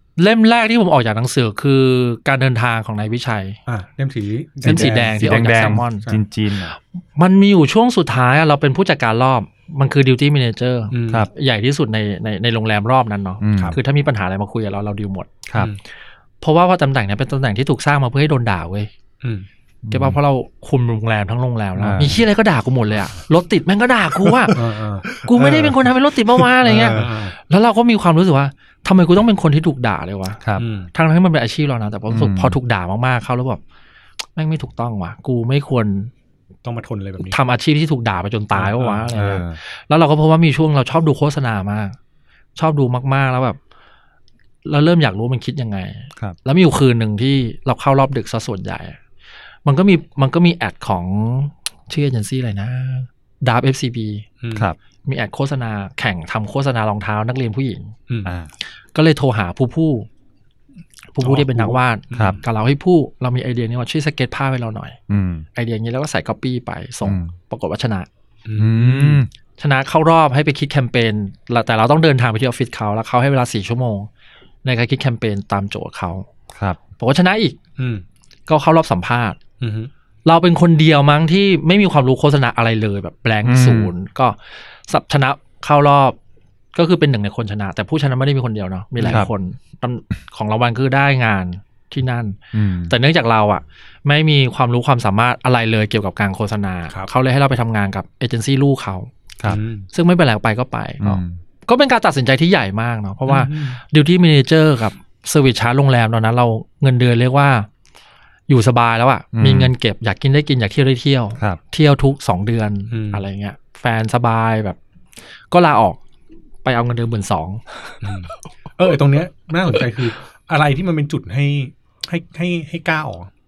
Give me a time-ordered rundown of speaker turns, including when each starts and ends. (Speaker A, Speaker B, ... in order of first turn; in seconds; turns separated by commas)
Speaker A: 0.2-3.6, Speaker B: 3.7-6.2, Speaker A: 4.6-6.1, Speaker C: 4.6-6.7, Speaker A: 6.7-15.4, Speaker B: 10.9-11.3, Speaker C: 13.4-13.8, Speaker C: 15.5-15.7, Speaker A: 16.4-18.9, Speaker C: 19.9-20.2, Speaker A: 19.9-24.6, Speaker C: 21.8-22.2, Speaker C: 24.2-24.6, Speaker B: 24.5-25.1, Speaker C: 25.1-27.1, Speaker A: 25.2-30.4, Speaker B: 26.7-27.3, Speaker B: 30.6-30.9, Speaker A: 30.9-33.6, Speaker C: 32.1-32.6, Speaker A: 34.4-36.1, Speaker B: 36.6-37.4, Speaker A: 37.2-42.0, Speaker B: 38.5-39.1, Speaker C: 39.1-39.6, Speaker A: 42.6-43.6, Speaker A: 44.6-49.0, Speaker A: 49.6-54.3, Speaker B: 54.4-54.7, Speaker A: 55.0-58.0, Speaker C: 58.2-58.5, Speaker A: 58.9-60.1, Speaker A: 61.1-65.0, Speaker B: 61.2-62.4, Speaker C: 62.1-62.4, Speaker C: 65.1-65.5, Speaker A: 65.5-68.1, Speaker C: 67.0-67.3, Speaker B: 68.5-69.2, Speaker C: 68.6-69.3, Speaker A: 69.6-74.1, Speaker A: 74.6-76.3, Speaker C: 76.5-76.8, Speaker A: 77.0-77.6, Speaker B: 77.8-78.0, Speaker A: 78.5-79.4, Speaker B: 79.6-79.9, Speaker A: 80.2-84.4, Speaker C: 83.5-83.9, Speaker A: 84.9-86.2, Speaker A: 86.8-92.4, Speaker C: 89.0-89.3, Speaker B: 89.0-89.3, Speaker C: 92.5-92.9, Speaker A: 92.9-99.1, Speaker B: 99.5-99.9, Speaker A: 99.9-107.7, Speaker C: 101.0-101.4, Speaker B: 103.3-103.8, Speaker A: 108.5-114.8, Speaker C: 109.3-109.7, Speaker B: 112.9-113.2, Speaker A: 115.5-116.0, Speaker A: 116.6-118.1, Speaker B: 118.0-123.3